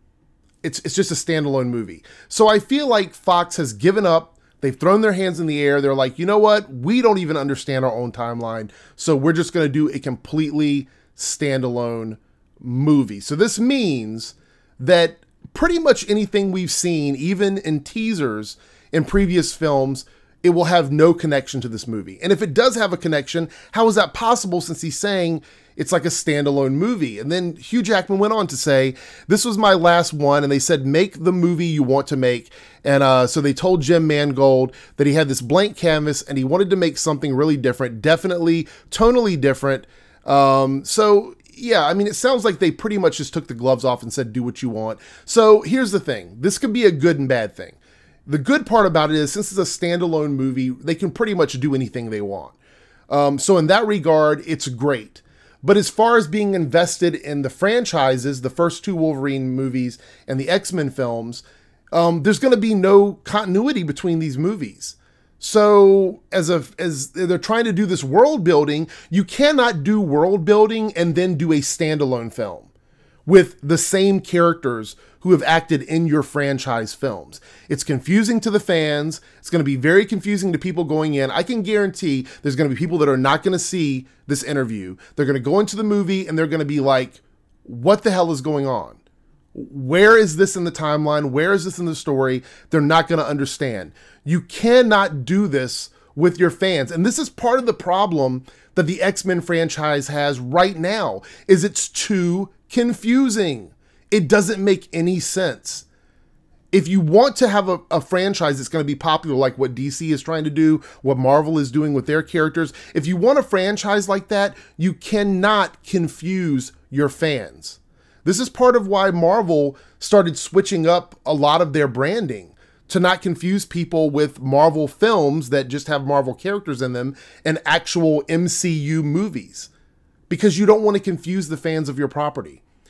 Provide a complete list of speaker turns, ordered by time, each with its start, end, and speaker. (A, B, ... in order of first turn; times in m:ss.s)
0:00.6-0:52.6 A
0:53.1-1:12.7 A
1:13.2-1:29.0 A
1:29.5-1:45.8 A
1:46.7-2:09.7 A
2:10.3-2:12.6 A